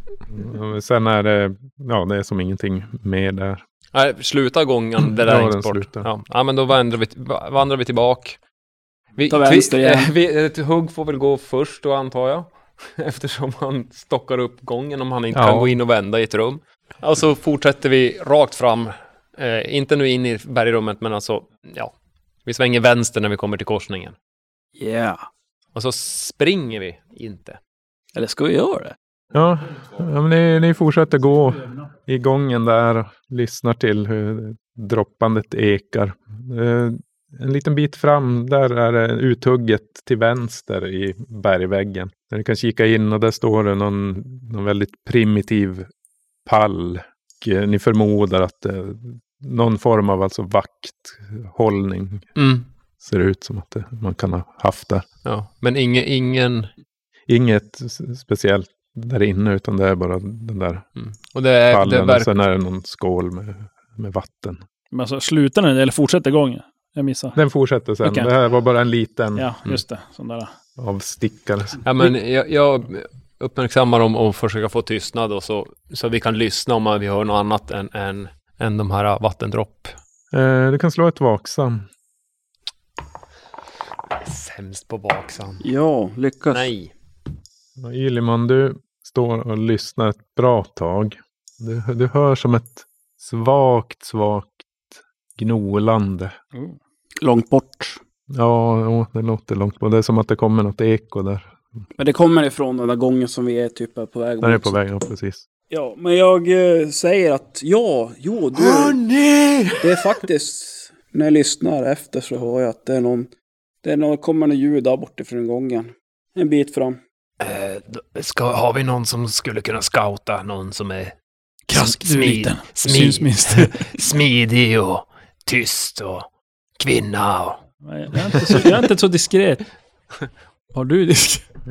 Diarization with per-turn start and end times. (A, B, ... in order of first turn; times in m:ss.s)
0:00.3-0:03.6 A
0:03.9-0:08.4 B
0:05.0-0:06.1 A
0:09.2-0:21.9 B
0:09.3-0:10.1 C
0:15.3-0:15.7 A
0:22.4-0:24.2 B
0:24.8-0:25.2 C
0:25.7-0:27.6 B
0:28.1-0:29.0 C
0:29.3-0:45.9 A
0:46.4-0:52.3 A
0:52.4-0:52.6 B
0:53.0-0:55.0 A
0:55.2-0:56.7 B
0:57.3-1:00.9 A
1:01.0-1:02.4 B
1:01.7-1:04.6 A
1:04.9-1:07.4 D
1:07.3-1:09.8 A
1:08.0-1:08.3 D
1:09.3-1:10.5 D
1:10.8-1:11.8 A
1:11.8-1:19.9 B
1:20.3-1:21.8 A
1:24.2-1:25.6 B
1:25.6-1:26.7 C
1:26.5-1:26.9 B
1:27.8-1:34.7 A
1:35.4-1:36.4 A
1:37.2-1:38.0 C
1:38.3-1:41.5 A
1:42.0-1:44.8 C
1:44.4-1:45.4 A
1:45.7-1:49.0 C
1:48.5-1:50.2 B
1:49.8-1:53.3 C
1:53.8-1:57.0 C
1:57.4-2:01.1 B
2:01.7-2:04.0 D
2:01.7-2:06.3 B
2:06.8-2:07.6 B
2:07.8-2:09.7 D
2:10.7-2:11.4 D